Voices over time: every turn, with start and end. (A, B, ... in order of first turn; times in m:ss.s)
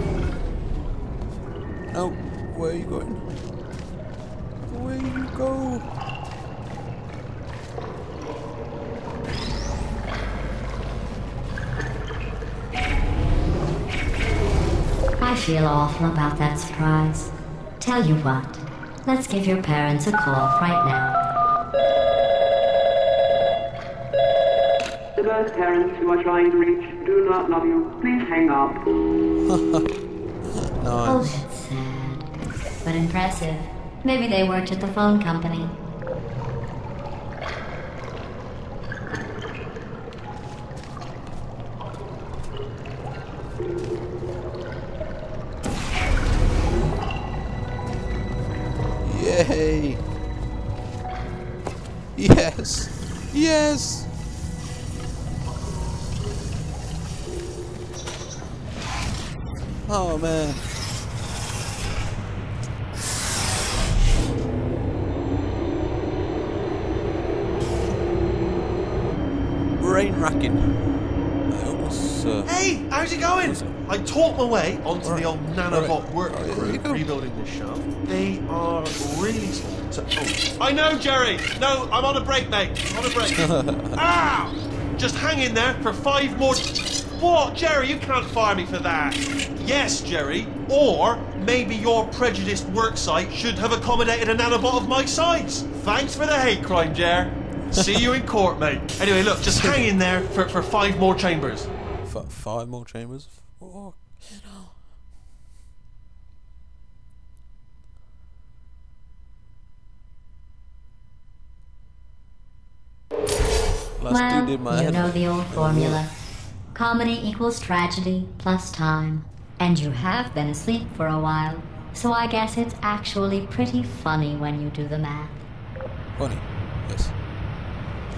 0:01.9-0:03.4 A
0:04.7-0:05.9 A
0:15.2-0:21.2 B
0:25.2-0:28.8 C
0:29.4-0:29.9 A
0:30.8-0:31.4 A
0:31.0-0:35.8 B
0:49.0-0:50.0 A
0:52.1-0:54.1 A
0:59.8-1:00.7 A
1:09.8-1:12.6 A
1:12.4-1:41.7 D
1:13.4-1:13.8 A
1:15.0-1:17.0 A
1:23.3-1:24.0 A
1:39.4-1:39.9 A
1:42.0-1:44.8 A
1:54.0-1:56.0 A
1:54.1-1:56.2 B
1:56.7-2:05.4 B
2:06.2-2:07.2 A